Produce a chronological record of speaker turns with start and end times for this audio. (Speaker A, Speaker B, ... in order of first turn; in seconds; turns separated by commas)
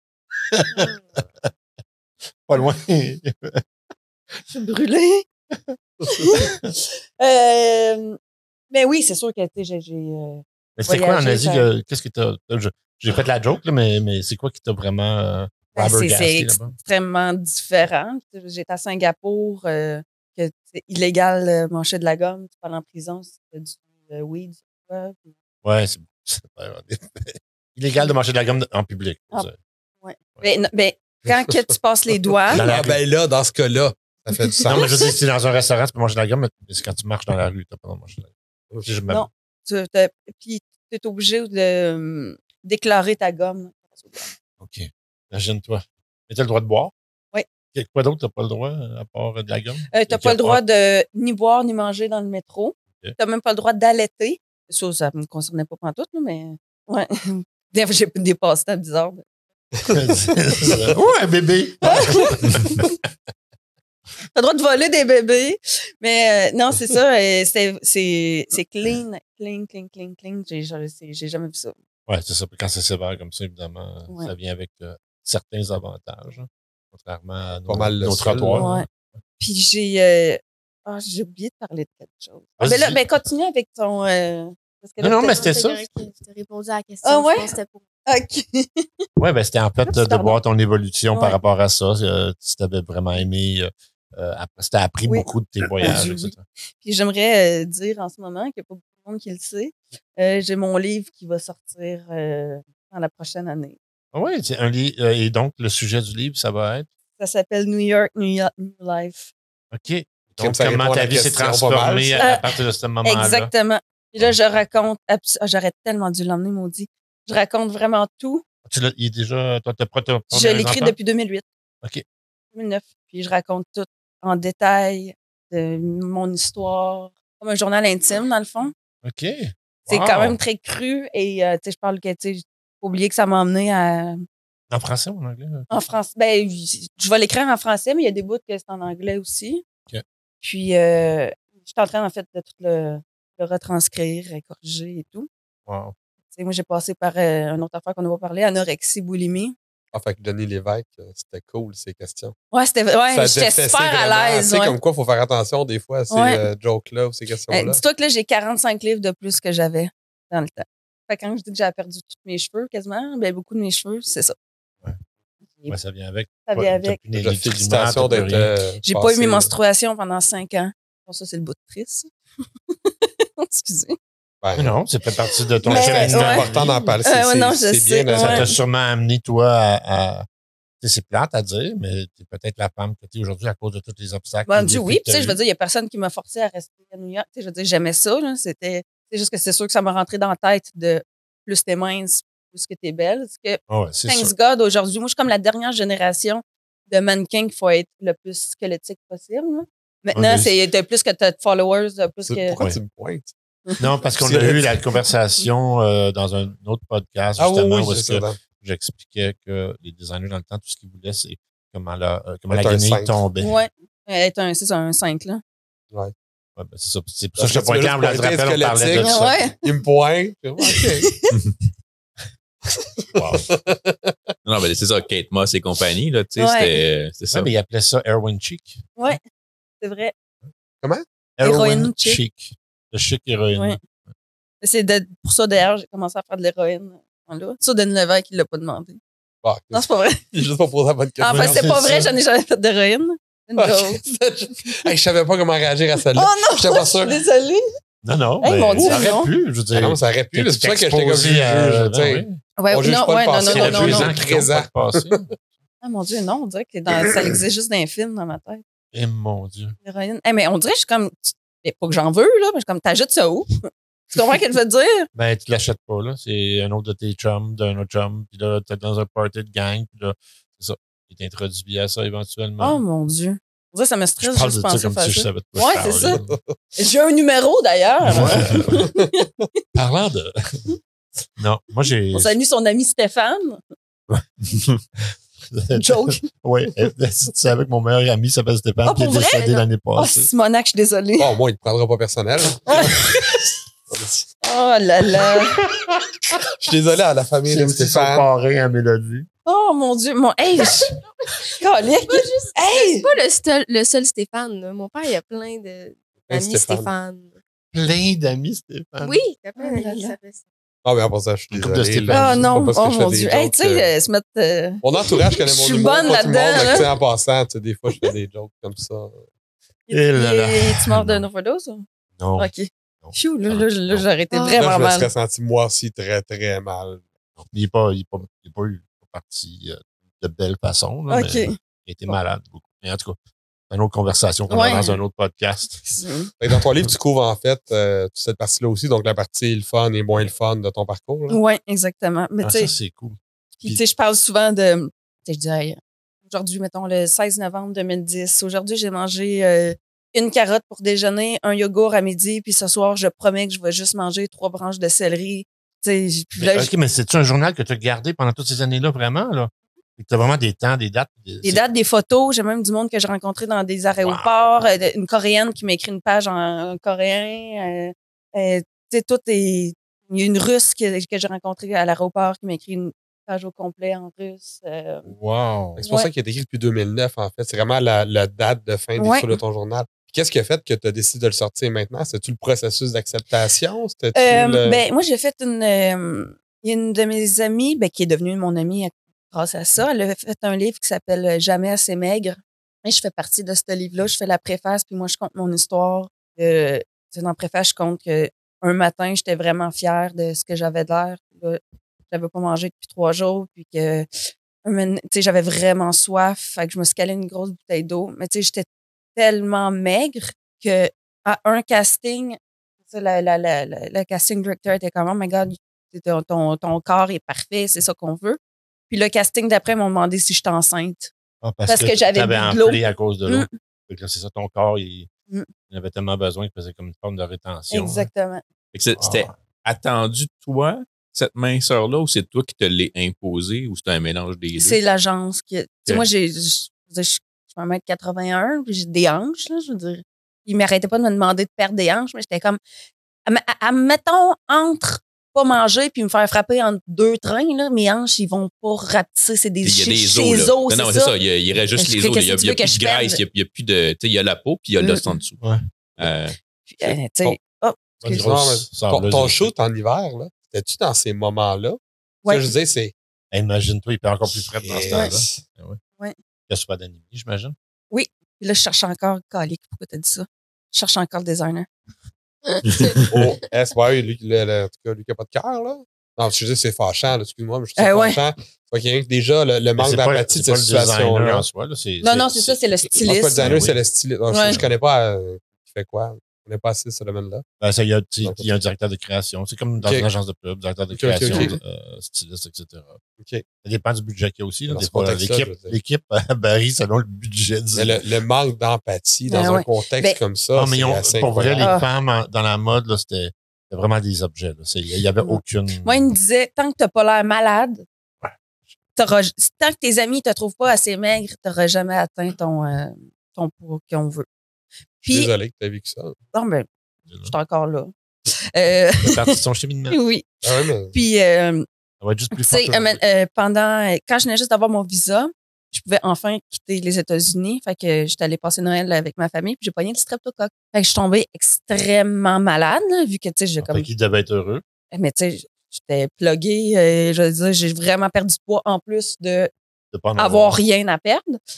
Speaker A: 0.5-1.5, Speaker A: 2.5-3.6, Speaker B: 4.5-5.2, Speaker B: 6.0-8.2, Speaker A: 6.4-6.7, Speaker B: 8.7-11.7, Speaker A: 10.8-16.7, Speaker B: 15.7-25.3, Speaker A: 25.6-29.5, Speaker B: 30.0-32.7, Speaker C: 32.5-35.1, Speaker A: 32.5-33.0, Speaker A: 34.7-38.3, Speaker A: 38.8-39.2, Speaker B: 39.1-44.3, Speaker A: 44.6-46.9, Speaker A: 47.7-50.6, Speaker B: 49.9-59.2, Speaker C: 59.9-60.3, Speaker A: 59.9-62.9, Speaker B: 61.8-62.9, Speaker B: 64.3-71.7, Speaker A: 72.1-78.8, Speaker C: 77.7-78.7, Speaker B: 78.5-78.9, Speaker B: 79.4-85.5, Speaker A: 82.6-83.1, Speaker A: 85.0-85.9, Speaker D: 85.1-87.8, Speaker B: 87.0-87.5, Speaker B: 88.1-88.9, Speaker A: 89.2-96.4, Speaker B: 89.8-90.4, Speaker B: 95.8-103.8, Speaker A: 104.1-106.9, Speaker B: 107.2-109.3, Speaker A: 109.7-113.5, Speaker C: 110.4-112.3, Speaker B: 112.2-112.5, Speaker B: 113.0-118.4, Speaker A: 118.7-120.9, Speaker B: 120.3-121.4, Speaker B: 122.5-128.7, Speaker A: 129.0-130.4, Speaker B: 129.9-134.2, Speaker A: 134.7-135.7, Speaker B: 135.7-139.6, Speaker B: 140.4-145.3, Speaker A: 145.7-145.9, Speaker B: 146.3-149.5, Speaker C: 149.9-152.3, Speaker B: 152.5-154.8, Speaker C: 153.1-157.8, Speaker B: 156.1-156.4, Speaker B: 157.5-164.3, Speaker A: 165.7-168.5, Speaker B: 166.5-167.0, Speaker C: 167.1-169.5, Speaker B: 168.8-172.1, Speaker B: 172.8-174.0, Speaker C: 174.4-174.7, Speaker A: 174.6-176.7, Speaker B: 175.6-178.5, Speaker C: 175.7-178.5, Speaker A: 178.1-180.2, Speaker A: 180.8-185.4, Speaker B: 184.5-202.6, Speaker A: 193.7-194.3, Speaker A: 200.1-200.5, Speaker C: 202.3-203.3, Speaker A: 203.8-213.5, Speaker C: 204.2-204.8, Speaker C: 207.4-208.4, Speaker C: 212.5-213.2, Speaker B: 213.4-215.4, Speaker A: 216.6-219.5, Speaker C: 217.4-221.1, Speaker B: 219.0-219.5, Speaker B: 220.7-221.4, Speaker A: 223.1-223.4, Speaker C: 223.5-224.3, Speaker E: 224.4-227.5, Speaker B: 226.4-226.8, Speaker A: 227.3-229.2, Speaker B: 229.8-230.1, Speaker A: 231.4-233.8, Speaker B: 231.4-232.2, Speaker B: 234.6-239.0, Speaker C: 239.4-241.9, Speaker B: 239.7-240.3, Speaker B: 241.2-244.0, Speaker A: 241.3-242.1, Speaker C: 243.6-247.2, Speaker B: 246.1-247.6, Speaker A: 248.0-252.4, Speaker B: 248.4-249.3, Speaker C: 248.8-249.1, Speaker C: 249.7-255.3, Speaker B: 252.6-254.1, Speaker A: 253.4-255.3, Speaker B: 255.8-258.6, Speaker A: 258.9-259.8, Speaker B: 259.8-265.1, Speaker A: 265.1-272.8, Speaker B: 272.6-276.2, Speaker A: 274.2-276.3, Speaker C: 276.1-276.6, Speaker B: 276.8-279.3, Speaker A: 278.1-278.8, Speaker C: 278.1-279.1, Speaker A: 279.7-280.6, Speaker A: 281.4-282.4, Speaker B: 282.1-283.6, Speaker A: 285.5-290.3, Speaker B: 285.8-286.2, Speaker B: 288.8-291.3, Speaker C: 291.2-293.0, Speaker B: 292.7-293.5, Speaker C: 293.9-294.2, Speaker B: 294.4-295.7, Speaker A: 295.6-296.4, Speaker C: 296.6-298.3, Speaker A: 297.5-299.3, Speaker B: 299.4-300.9, Speaker B: 301.5-303.2, Speaker D: 302.1-307.4, Speaker C: 306.3-306.9, Speaker A: 307.7-309.2, Speaker D: 309.0-310.4, Speaker B: 309.6-310.1, Speaker C: 310.8-313.9, Speaker A: 311.5-312.5, Speaker B: 312.1-316.9, Speaker C: 314.8-319.2, Speaker B: 319.9-321.9, Speaker A: 319.9-321.2, Speaker A: 322.2-322.5, Speaker B: 322.4-325.1, Speaker A: 323.0-324.1, Speaker D: 324.3-324.6, Speaker C: 324.6-327.0, Speaker A: 327.4-333.2, Speaker B: 331.1-331.6, Speaker A: 333.7-335.9, Speaker B: 334.5-335.0, Speaker B: 336.0-336.3, Speaker C: 336.4-341.4, Speaker B: 341.3-342.7, Speaker A: 342.4-343.8, Speaker B: 343.6-356.7, Speaker A: 356.4-361.6, Speaker B: 361.4-375.1, Speaker A: 364.0-364.3, Speaker A: 375.1-375.8, Speaker C: 375.8-384.8, Speaker B: 379.0-379.4, Speaker B: 384.1-404.1, Speaker B: 404.6-418.4, Speaker B: 418.9-421.1, Speaker A: 421.4-425.1, Speaker B: 421.6-423.5, Speaker A: 425.7-428.1, Speaker B: 427.7-428.4, Speaker E: 428.7-434.8, Speaker A: 429.0-429.3, Speaker B: 434.5-442.6, Speaker B: 443.2-451.1, Speaker E: 449.6-455.4, Speaker B: 451.8-453.2, Speaker B: 454.8-455.1, Speaker E: 456.0-456.4, Speaker B: 456.7-458.2, Speaker C: 456.8-457.4, Speaker A: 458.0-459.5, Speaker C: 458.1-462.9, Speaker B: 462.2-462.5, Speaker A: 463.3-465.8, Speaker C: 464.6-465.4, Speaker B: 464.9-465.2, Speaker A: 466.5-467.5, Speaker B: 467.9-471.7, Speaker E: 472.7-473.1, Speaker C: 473.1-481.5, Speaker B: 477.8-478.2, Speaker A: 479.8-482.6, Speaker B: 482.0-483.5, Speaker C: 482.9-487.4, Speaker A: 483.3-483.8, Speaker B: 484.3-484.6, Speaker A: 484.4-484.7, Speaker A: 487.6-493.0, Speaker C: 488.2-488.5, Speaker C: 489.8-490.1, Speaker C: 490.9-491.6, Speaker B: 491.3-491.5, Speaker C: 493.2-493.4, Speaker A: 493.6-498.0, Speaker C: 494.7-495.8, Speaker C: 497.7-501.8, Speaker B: 499.2-500.2, Speaker A: 500.6-506.0, Speaker B: 501.6-501.9, Speaker B: 505.2-507.8, Speaker B: 508.9-514.2, Speaker B: 515.0-515.3, Speaker C: 515.1-516.2, Speaker B: 516.3-516.7, Speaker B: 517.2-519.3, Speaker A: 519.0-520.0, Speaker B: 519.9-520.2, Speaker C: 520.4-520.9, Speaker B: 520.9-521.6, Speaker A: 522.0-523.0, Speaker B: 522.3-533.9, Speaker A: 533.6-534.6, Speaker B: 534.9-539.5, Speaker A: 539.9-540.6, Speaker B: 540.2-541.4